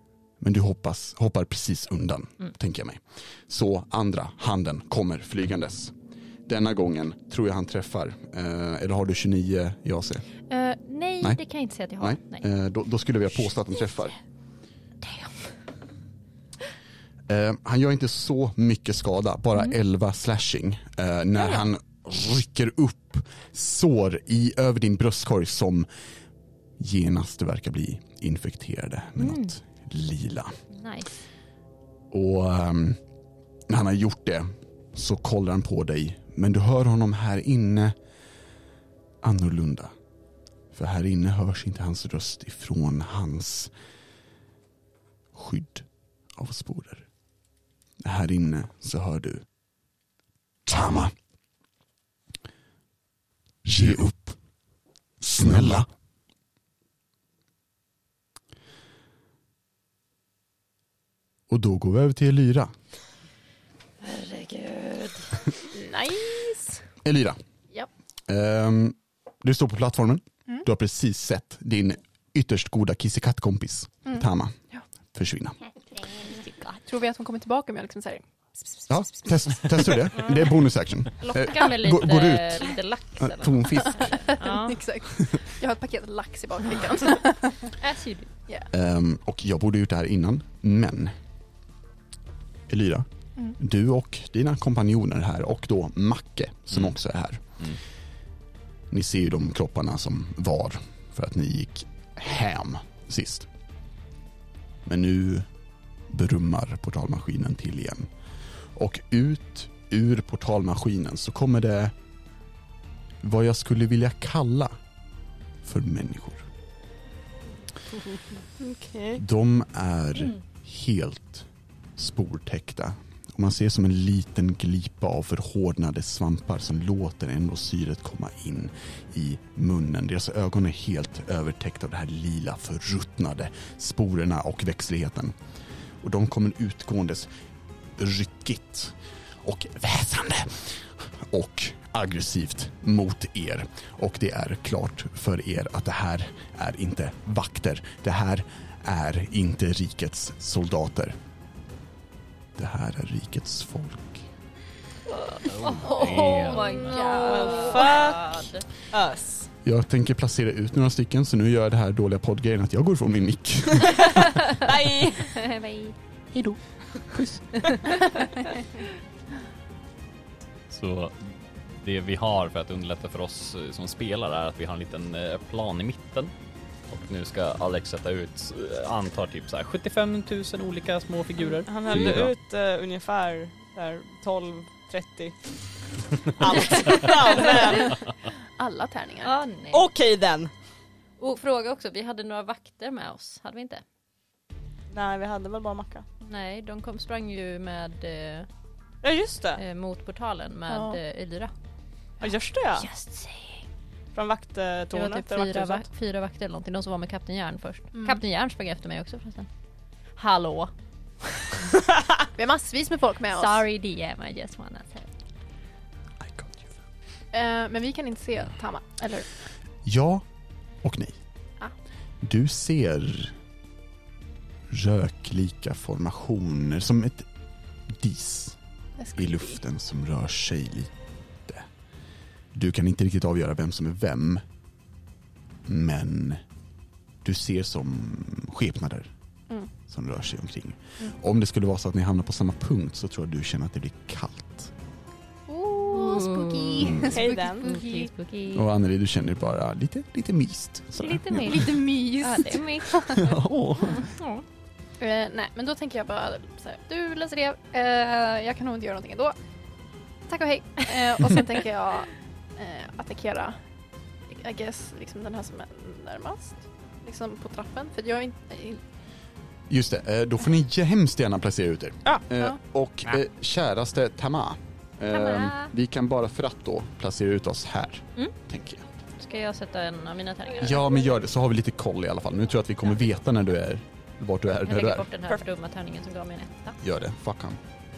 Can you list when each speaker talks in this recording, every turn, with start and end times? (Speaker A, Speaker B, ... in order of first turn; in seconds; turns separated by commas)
Speaker A: 0.4-5.9, Speaker A: 6.5-10.2, Speaker B: 10.5-12.5, Speaker A: 12.0-14.2, Speaker B: 15.0-15.3, Speaker A: 17.3-25.9, Speaker B: 21.4-21.7, Speaker A: 26.8-30.6, Speaker B: 29.2-29.6, Speaker B: 30.7-31.1, Speaker A: 32.1-33.0, Speaker A: 33.7-38.0, Speaker A: 39.2-39.9, Speaker A: 40.7-43.7, Speaker A: 45.3-47.1, Speaker A: 48.0-49.5, Speaker A: 50.7-51.1, Speaker A: 53.6-54.4, Speaker A: 55.2-55.9, Speaker A: 61.5-62.7, Speaker C: 65.7-66.8, Speaker A: 67.0-67.4, Speaker A: 68.3-74.6, Speaker C: 74.1-74.8, Speaker A: 75.1-75.6, Speaker C: 76.8-78.8, Speaker A: 78.9-84.2, Speaker B: 81.2-84.8, Speaker C: 84.0-87.7, Speaker B: 87.7-88.3, Speaker A: 88.7-91.1, Speaker A: 92.7-97.5, Speaker A: 98.9-103.5, Speaker A: 104.8-105.5, Speaker A: 106.1-108.1, Speaker A: 108.8-111.9, Speaker A: 113.2-114.8, Speaker A: 115.6-116.5, Speaker D: 118.6-119.2, Speaker A: 119.2-135.3, Speaker A: 136.0-137.3, Speaker A: 138.0-151.2, Speaker A: 152.6-154.3, Speaker B: 155.2-158.7, Speaker E: 155.5-156.7, Speaker C: 155.8-157.9, Speaker D: 157.1-159.5, Speaker A: 159.7-164.3, Speaker D: 164.6-165.4, Speaker B: 165.3-166.0, Speaker B: 167.7-168.0, Speaker E: 170.7-176.3, Speaker E: 176.9-182.3, Speaker D: 181.7-185.4, Speaker D: 186.4-188.0, Speaker C: 188.6-189.3, Speaker B: 189.2-189.9, Speaker D: 189.7-190.5, Speaker B: 191.2-193.8, Speaker D: 194.9-196.1, Speaker B: 196.2-198.5, Speaker D: 199.0-199.6, Speaker B: 199.6-201.5, Speaker C: 200.7-201.0, Speaker D: 202.2-202.9, Speaker B: 202.2-203.6, Speaker D: 204.2-205.8, Speaker B: 204.9-209.5, Speaker C: 207.9-208.2, Speaker B: 210.2-210.7, Speaker C: 212.4-213.6, Speaker B: 213.3-215.1, Speaker A: 216.2-216.5, Speaker C: 217.3-219.3, Speaker A: 219.8-220.2, Speaker A: 220.8-221.2, Speaker A: 222.2-223.4, Speaker A: 224.7-227.3, Speaker A: 227.9-228.6, Speaker C: 229.0-229.6, Speaker A: 229.2-230.9, Speaker A: 232.5-234.4, Speaker A: 235.7-236.4, Speaker A: 237.2-239.1, Speaker A: 239.9-244.7, Speaker C: 245.5-248.1, Speaker B: 245.9-248.7, Speaker A: 246.8-247.2, Speaker D: 247.2-247.7, Speaker A: 248.5-251.7, Speaker B: 251.0-251.6, Speaker C: 251.3-253.2, Speaker B: 252.2-253.3, Speaker A: 253.1-254.1, Speaker B: 253.9-254.4, Speaker C: 255.0-259.4, Speaker C: 260.3-263.6, Speaker C: 264.3-268.8, Speaker A: 269.7-278.9, Speaker B: 275.1-275.7, Speaker B: 279.2-281.0, Speaker A: 280.6-285.1, Speaker B: 284.6-286.8, Speaker A: 286.8-287.6